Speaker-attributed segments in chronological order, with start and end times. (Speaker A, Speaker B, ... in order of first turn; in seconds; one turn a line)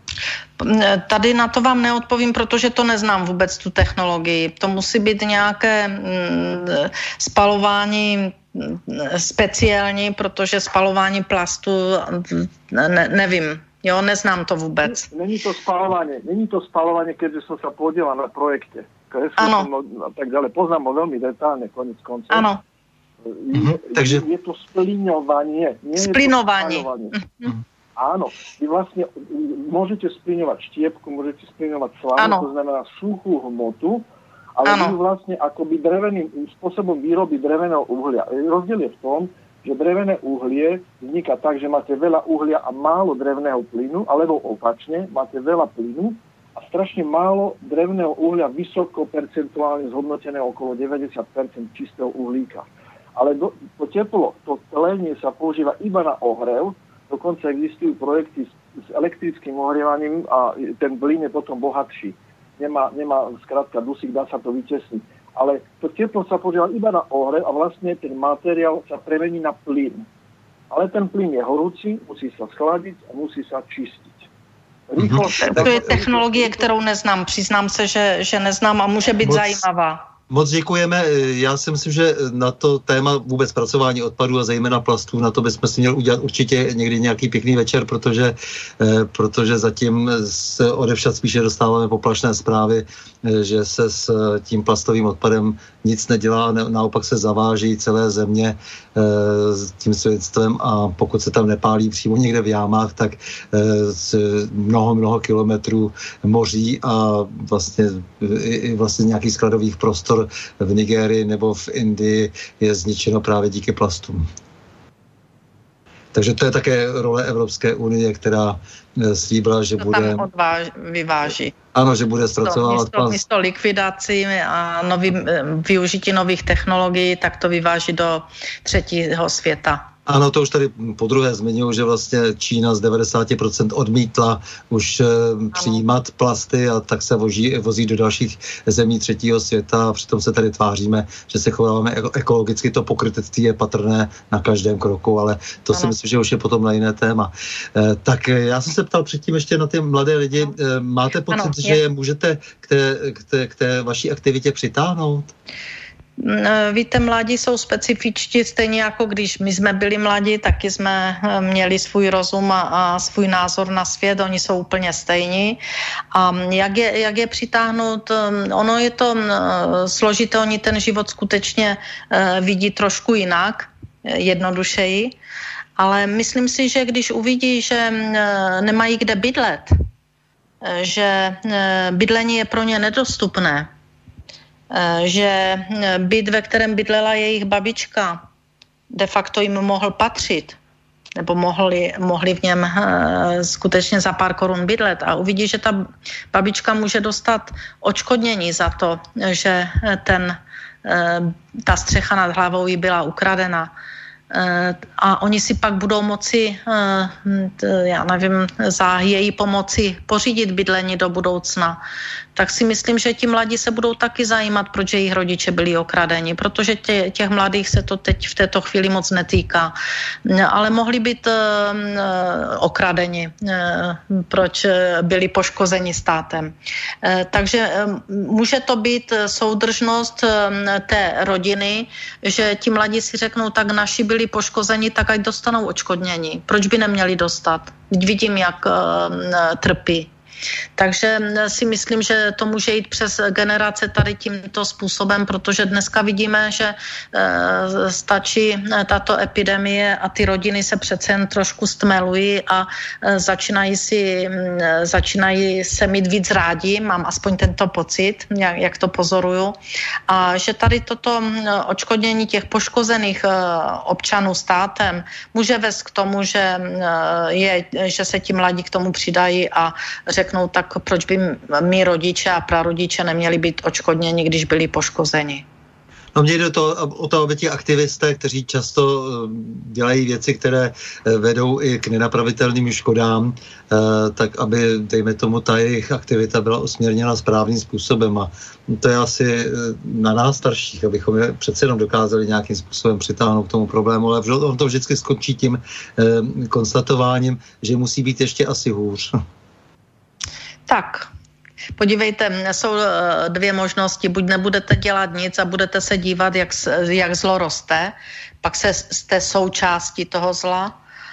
Speaker A: 0.6-15.1
Speaker B: 14.8-22.5
Speaker A: 19.4-19.7
Speaker A: 22.3-22.6
Speaker B: 23.3-27.2
Speaker C: 23.5-24.2
Speaker A: 26.0-27.5
Speaker B: 28.0-34.1
Speaker A: 32.2-32.5
Speaker B: 34.6-70.1
Speaker A: 34.6-35.0
Speaker B: 70.7-74.3
Speaker B: 74.9-76.7
Speaker C: 75.0-75.3
Speaker A: 75.4-80.1
Speaker C: 79.2-79.6
Speaker C: 80.3-114.3
Speaker C: 116.1-120.3
Speaker A: 119.8-121.5
Speaker C: 121.7-123.2
Speaker A: 122.4-129.9
Speaker C: 130.1-155.3
Speaker A: 135.5-135.8
Speaker A: 151.3-151.8
Speaker A: 156.2-165.6
Speaker A: 166.1-175.2
Speaker A: 175.8-179.7
Speaker A: 180.6-183.7
Speaker A: 184.7-188.2
Speaker A: 188.9-190.6
Speaker A: 191.2-203.7
Speaker A: 204.3-211.8
Speaker A: 212.4-219.7
Speaker A: 220.2-240.1
Speaker A: 240.8-259.6
Speaker A: 260.1-275.4
Speaker C: 276.1-299.2
Speaker A: 300.7-301.1
Speaker A: 301.8-310.8